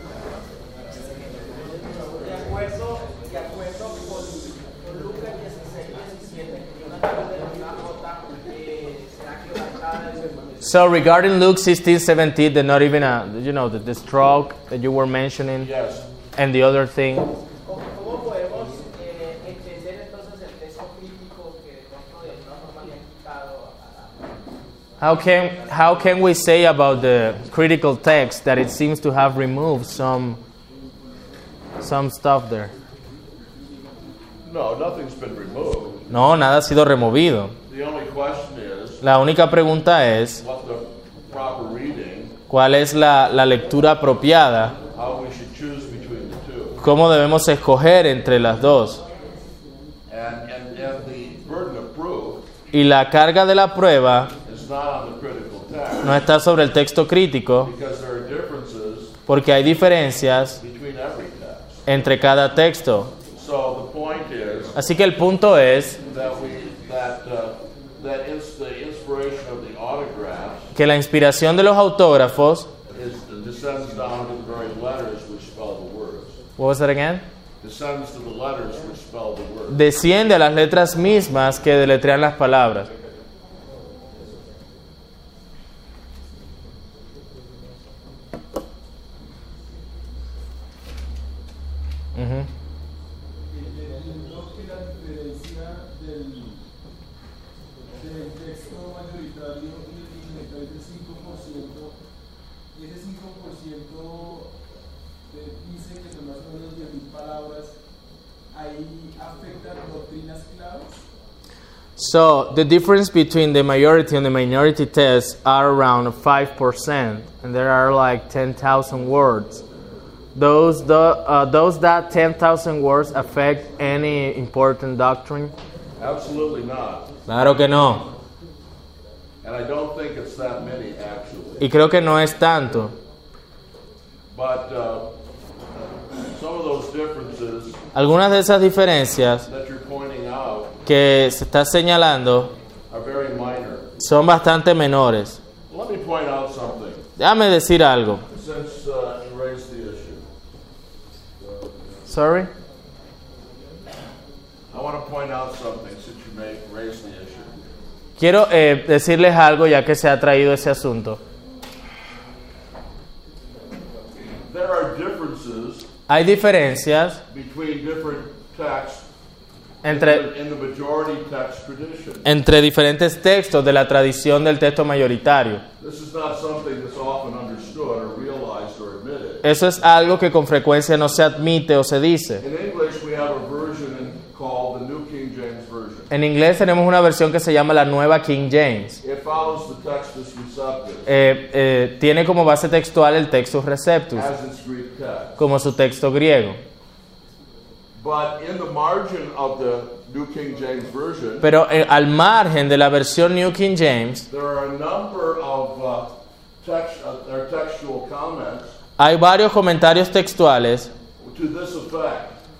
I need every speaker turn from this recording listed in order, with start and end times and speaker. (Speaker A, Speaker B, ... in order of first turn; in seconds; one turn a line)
Speaker A: 0.9-10.8
Speaker B: 10.6-15.7
Speaker C: 15.6-16.1
Speaker B: 16.4-17.3
Speaker A: 17.6-24.4
Speaker B: 25.0-30.4
Speaker B: 31.8-32.7
Speaker C: 34.5-36.0
Speaker B: 36.1-37.5
Speaker C: 37.7-39.0
Speaker B: 39.0-40.4
Speaker C: 40.4-42.4
Speaker B: 42.5-44.8
Speaker C: 44.9-46.8
Speaker B: 46.8-49.0
Speaker C: 50.1-52.5
Speaker B: 52.7-54.3
Speaker C: 54.5-56.2
Speaker B: 56.0-57.7
Speaker C: 57.6-59.2
Speaker B: 59.3-60.6
Speaker C: 60.6-61.9
Speaker B: 61.9-63.1
Speaker C: 63.3-64.8
Speaker B: 64.8-66.0
Speaker C: 66.1-70.7
Speaker B: 70.8-72.7
Speaker C: 72.9-76.3
Speaker B: 76.6-77.2
Speaker C: 77.6-79.8
Speaker B: 79.7-82.9
Speaker B: 92.2-92.5
Speaker D: 93.5-96.6
Speaker D: 97.9-102.0
Speaker D: 102.7-104.5
Speaker D: 105.3-107.8
Speaker D: 108.5-111.0
Speaker B: 112.0-119.6
Speaker B: 120.3-125.5
Speaker C: 126.0-127.1
Speaker B: 127.3-128.1
Speaker C: 129.4-131.7
Speaker B: 131.6-132.9
Speaker C: 134.3-135.1
Speaker C: 136.2-137.8
Speaker B: 137.9-139.5
Speaker C: 139.5-140.8
Speaker B: 140.9-142.5
Speaker C: 142.9-143.9
Speaker B: 144.0-145.4
Speaker C: 145.7-147.1
Speaker B: 147.2-148.2
Speaker C: 148.3-150.2
Speaker B: 152.1-152.5
Speaker C: 154.7-157.5
Speaker B: 158.2-161.2
Speaker C: 164.5-165.9
Speaker B: 166.1-167.2
Speaker C: 167.3-169.1
Speaker B: 169.8-170.3
Speaker C: 169.8-172.3
Speaker B: 172.2-175.6
Speaker C: 175.8-179.4
Speaker B: 179.4-182.4
Speaker C: 182.4-186.1
Speaker B: 186.1-189.0
Speaker C: 189.0-191.1
Speaker B: 191.1-194.3
Speaker C: 194.2-195.4
Speaker B: 195.4-196.6
Speaker C: 198.0-201.5
Speaker B: 201.4-204.2
Speaker C: 204.3-208.8
Speaker B: 209.0-210.9
Speaker C: 211.2-212.4